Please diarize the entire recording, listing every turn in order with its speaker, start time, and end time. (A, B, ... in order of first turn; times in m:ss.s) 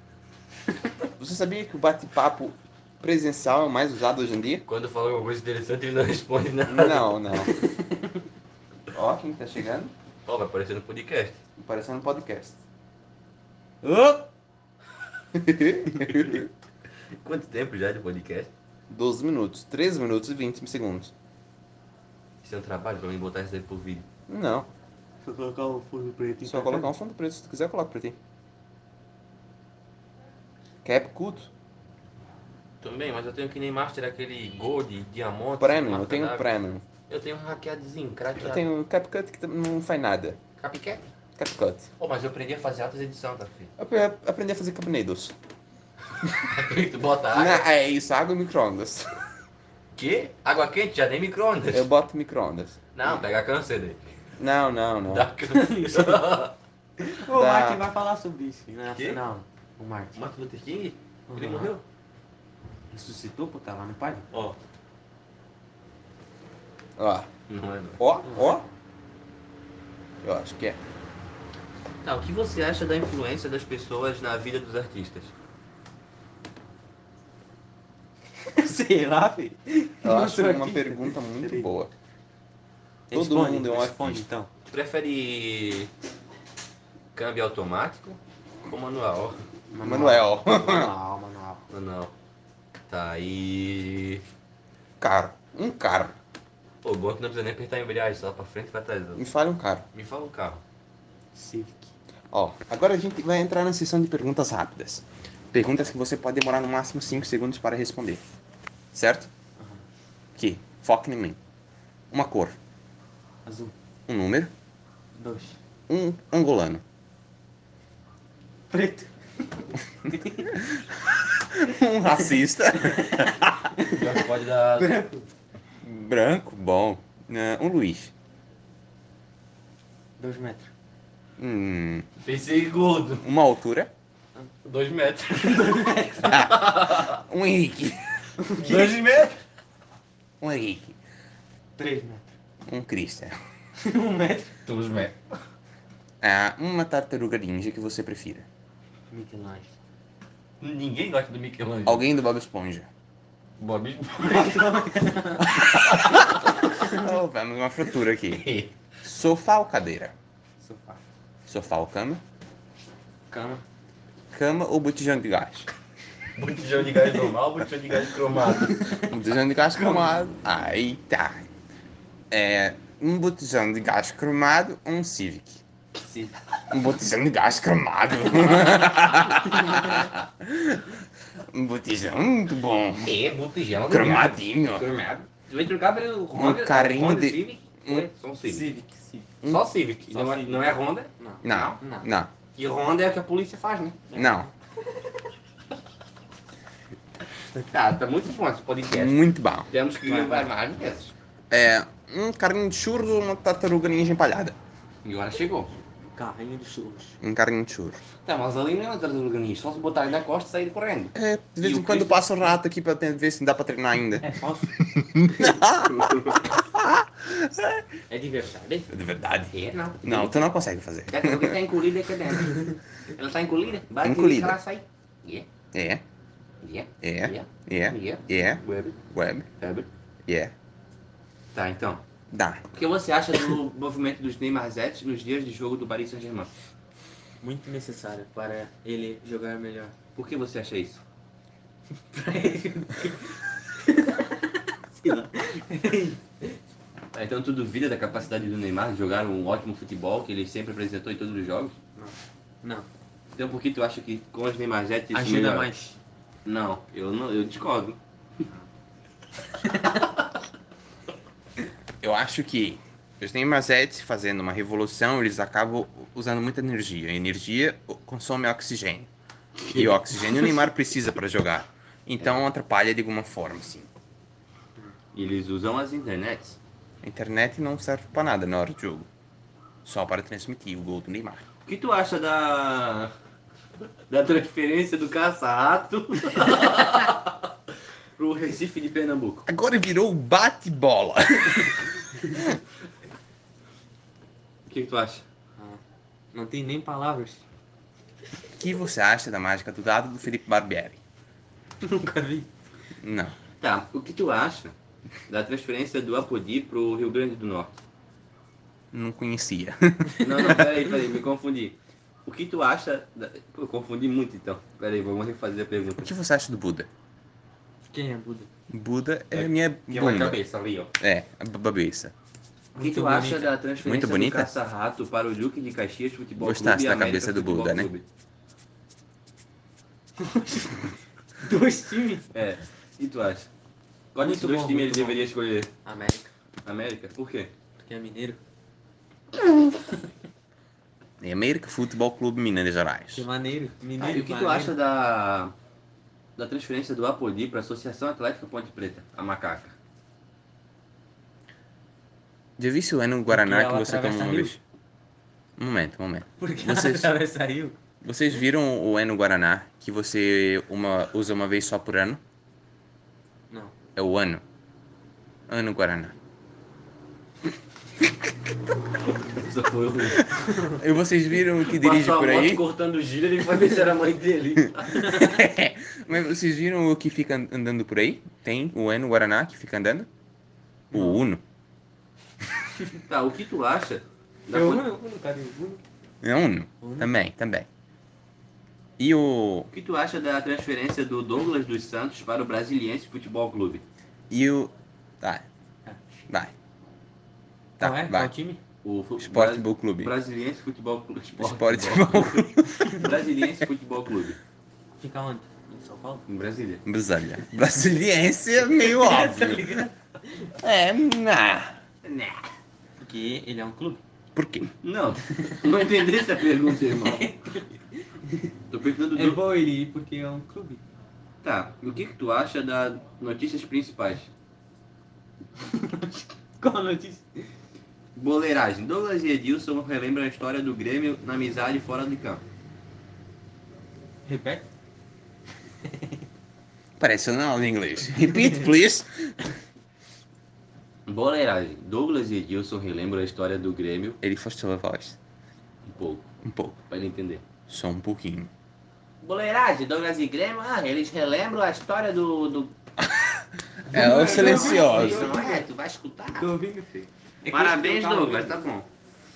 0:01.2-0:04.6 A
0:04.7-0:07.1 B
0:06.7-0:07.5 A
0:07.5-0:08.2 C
0:08.9-0:09.9 A
0:10.3-0:11.4 B
0:11.6-0:12.6 A
0:13.8-0:14.3 C
0:15.3-0:16.5 A
0:16.1-0:16.4 B
0:17.2-0:18.5 B
0:18.9-0:21.1 A
0:22.4-0:24.1 B
0:24.3-0:24.7 A
0:25.2-0:26.9 C
0:26.4-0:28.2 A
0:30.8-0:31.5 A
0:32.8-0:36.5 B
0:35.6-0:36.8 A
0:37.1-0:38.7 B
0:38.4-0:40.4 A
0:40.6-0:41.1 B
0:41.4-0:41.9 A
0:42.0-0:43.7 B
0:43.8-0:45.4 A
0:46.3-0:47.7 B
0:47.3-0:49.2 A
0:50.0-0:51.9 B
0:51.7-0:53.2 A
0:53.0-0:54.0 B
0:54.4-0:55.3 A
0:55.1-0:56.6 B
0:55.5-0:56.3 C
0:57.0-1:00.2 C
0:57.3-0:57.8 A
0:58.9-0:59.2 B
1:00.2-1:01.8 B
1:01.3-1:01.7 C
1:02.9-1:04.3 C
1:04.3-1:04.6 B
1:07.0-1:07.3 A
1:07.5-1:08.0 B
1:08.0-1:08.7 A
1:08.3-1:08.6 C
1:10.2-1:10.8 A
1:12.0-1:15.3 B
1:18.5-1:21.7 C
1:20.0-1:21.9 A
1:23.1-1:24.5 C
1:23.1-1:24.2 A
1:24.7-1:25.9 B
1:27.1-1:29.4 B
1:29.7-1:31.6 C
1:29.8-1:30.9 A
1:31.7-1:32.1 B
1:32.9-1:34.2 B
1:35.0-1:36.2 A
1:36.8-1:39.2 B
1:39.2-1:39.9 A
1:39.9-1:40.6 B
1:41.4-1:41.9 C
1:42.3-1:48.2 A
1:48.9-1:49.3 A
1:49.6-1:49.8 C
1:50.4-1:51.4 A
1:52.1-1:52.6 A
1:53.4-1:53.7 C
1:54.1-1:54.5 A
1:55.2-1:55.6 C
1:55.9-1:56.8 A
1:58.7-2:00.6 C
2:00.5-2:03.7 A
2:02.8-2:05.2 C
2:03.8-2:05.0 B
2:05.8-2:08.1 A
2:10.2-2:10.7 C
2:11.4-2:12.1 A
2:12.2-2:13.3 B
2:13.2-2:13.9 A
2:14.6-2:17.2 B
2:15.4-2:16.4 C
2:16.3-2:18.3 A
2:18.4-2:19.0 C
2:18.6-2:19.4 B
2:20.4-2:21.0 A
2:21.8-2:22.3 C
2:22.7-2:23.4 A
2:23.8-2:24.6 C
2:24.6-2:25.2 B
2:26.2-2:28.5 A
2:29.1-2:29.7 C
2:30.6-2:32.1 B
2:31.9-2:32.9 A
2:33.6-2:34.7 B
2:34.2-2:35.6 C
2:35.5-2:38.5 A
2:35.6-2:36.7 B
2:38.3-2:38.8 B
2:39.0-2:40.1 A
2:40.6-2:41.0 C
2:41.5-2:42.2 A
2:43.3-2:43.6 C
2:44.3-2:45.7 A
2:46.4-2:48.9 B
2:48.6-2:49.1 C
2:49.0-2:51.4 A
2:49.8-2:50.2 C
2:52.3-2:55.6 A
2:56.0-2:56.3 C
2:56.7-3:03.2 A
3:03.0-3:08.6 B
3:03.9-3:04.9 A
3:06.4-3:08.1 A
3:08.4-3:09.4 C
3:09.4-3:11.8 B
3:10.1-3:12.1 C
3:11.4-3:12.3 A
3:12.6-3:14.1 B
3:14.1-3:14.5 C
3:14.2-3:14.5 A
3:17.6-3:21.1 B
3:18.9-3:19.7 A
3:20.1-3:20.5 C
3:21.5-3:24.6 A
3:25.0-3:25.8 B
3:26.2-3:27.2 C
3:27.2-3:28.0 A
3:28.2-3:32.3 B
3:31.2-3:37.8 A
3:34.2-3:34.8 C
3:35.9-3:36.4 B
3:38.1-3:38.9 B
3:38.9-3:41.6 A
3:39.5-3:40.5 B
3:41.1-3:45.5 B
3:44.0-3:44.6 A
3:45.7-3:46.0 A
3:46.6-3:49.0 B
3:47.0-3:49.5 A
3:49.6-3:49.9 B
3:50.3-3:50.5 A
3:51.5-3:52.0 B
3:52.3-3:52.6 A
3:52.7-3:56.5 B
3:57.4-4:00.0 C
4:00.2-4:01.0 B
4:02.1-4:06.6 C
4:07.1-4:11.8 B
4:12.0-4:12.9 C
4:13.4-4:15.7 B
4:15.1-4:16.0 C
4:16.4-4:18.0 B
4:19.6-4:20.1 C
4:22.0-4:29.1 A
4:29.7-4:30.5 C
4:29.7-4:33.9 A
4:35.1-4:36.6 B
4:37.0-4:39.1 A
4:39.8-4:41.4 A
4:41.7-4:43.1 B
4:44.1-4:47.5 B
4:48.2-4:49.5 B
4:49.5-4:52.6 A
4:54.7-4:55.2 B
4:56.3-4:57.4 C
4:58.6-5:01.0 A
5:01.8-5:02.5 C
5:03.0-5:03.4 A
5:03.6-5:04.7 B
5:05.3-5:07.8 B
5:08.9-5:10.7 A
5:10.2-5:16.1 B
5:16.0-5:16.9 A
5:17.9-5:18.5 C
5:18.7-5:20.4 A
5:19.3-5:20.9 B
5:21.0-5:22.1 A
5:22.8-5:23.5 C
5:22.8-5:28.0 B
5:23.8-5:24.5 A
5:26.4-5:27.9 A
5:30.2-5:30.9 C
5:31.4-5:32.3 C
5:32.3-5:33.5 B
5:34.1-5:35.7 B
5:34.2-5:35.2 C
5:35.8-5:36.3 C
5:36.6-5:37.5 B
5:37.8-5:38.4 C
5:41.2-5:43.3 A
5:43.1-5:44.7 C
5:44.0-5:45.5 B
5:46.4-5:49.8 B
5:52.6-5:54.6 A
5:53.3-5:54.5 C
5:55.6-5:57.1 A
5:56.4-5:57.8 C
5:58.0-6:02.2 A
6:03.5-6:03.8 C
6:04.0-6:04.4 A
6:05.5-6:06.2 A
6:09.2-6:10.6 B
6:10.4-6:12.6 A
6:11.6-6:15.2 B
6:14.9-6:15.4 C
6:15.0-6:20.1 A
6:20.9-6:21.2 C
6:20.9-6:21.4 A
6:23.0-6:24.9 B
6:24.5-6:25.8 C
6:26.2-6:27.7 A
6:26.8-6:27.1 C
6:29.0-6:29.7 A
6:29.7-6:33.8 B
6:34.3-6:35.5 A
6:37.8-6:38.3 A
6:37.8-6:38.6 C
6:38.8-6:44.4 B
6:39.2-6:40.1 A
6:41.4-6:43.0 A
6:45.0-6:46.2 C
6:46.3-6:46.8 B
6:46.9-6:49.9 A
6:48.6-6:50.5 C
6:50.6-6:51.8 A
6:52.0-6:52.4 B
6:53.0-6:54.0 C
6:54.4-6:54.7 A
6:54.8-6:57.3 B
6:56.9-6:57.7 C
6:58.2-6:58.5 C
6:58.7-6:59.4 B
6:59.2-7:00.8 C
7:01.4-7:04.3 B
7:05.6-7:07.3 C
7:08.2-7:12.4 B
7:14.3-7:14.7 C
7:15.8-7:16.2 C
7:17.0-7:19.3 A
7:21.1-7:24.2 B
7:24.2-7:25.2 A
7:25.8-7:26.3 B
7:26.4-7:26.8 A
7:26.9-7:27.4 B
7:27.7-7:28.5 A
7:29.2-7:32.7 B
7:33.0-7:35.4 A
7:33.9-7:35.6 C
7:34.0-7:36.5 B
7:36.4-7:38.6 C
7:37.5-7:38.9 B